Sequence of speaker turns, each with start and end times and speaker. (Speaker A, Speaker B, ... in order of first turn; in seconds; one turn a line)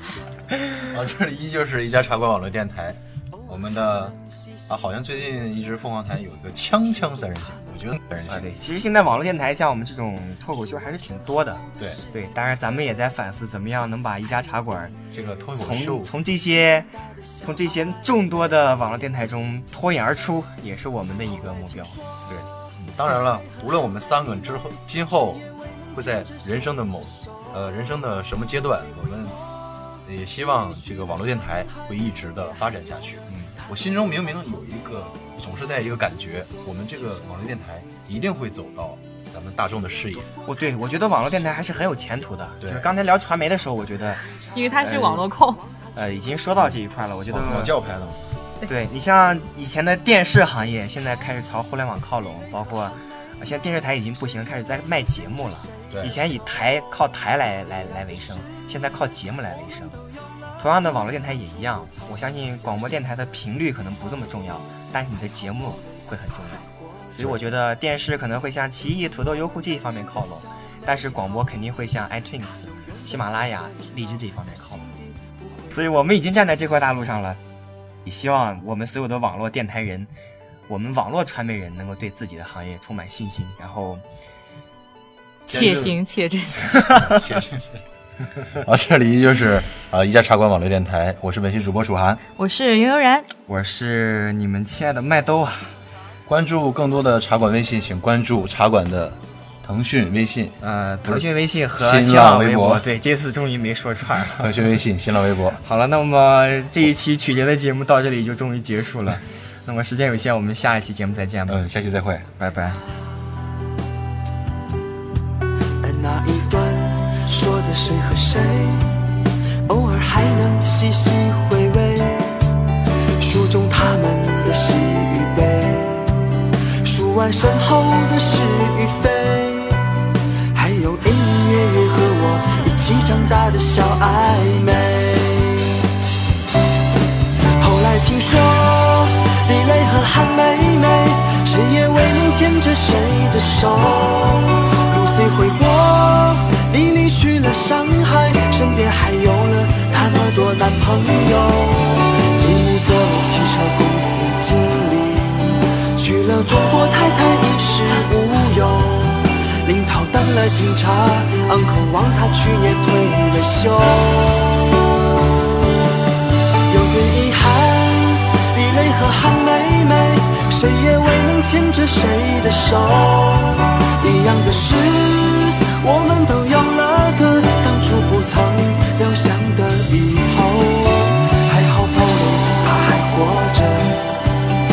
Speaker A: 0.8-8.5
Speaker B: 8.3-15.0
Speaker A: 11.8-12.0
Speaker A: 15.1-16.1
Speaker B: 15.6-22.1
Speaker A: 22.3-29.4
Speaker A: 30.0-40.3
Speaker B: 40.5-44.2
Speaker A: 42.6-42.9
Speaker C: 44.4-45.7
Speaker B: 44.8-45.3
Speaker B: 46.0-47.8
Speaker A: 47.3-48.3
Speaker B: 48.7-60.0
Speaker A: 55.9-56.1
Speaker B: 60.6-75.1
Speaker B: 75.7-77.4
Speaker B: 78.0-80.1
Speaker B: 80.7-84.0
Speaker C: 85.5-87.1
Speaker A: 85.5-86.0
Speaker A: 86.9-87.8
Speaker A: 88.4-92.2
Speaker C: 92.4-93.3
Speaker B: 93.5-95.8
Speaker A: 96.3-102.8
Speaker B: 100.6-104.7
Speaker A: 104.3-105.6
Speaker B: 105.6-111.6
Speaker A: 111.5-112.3
Speaker B: 112.4-112.8
Speaker D: 115.8-122.4
Speaker D: 123.2-126.3
Speaker D: 126.8-135.9
Speaker D: 137.6-165.7
Speaker D: 166.7-184.1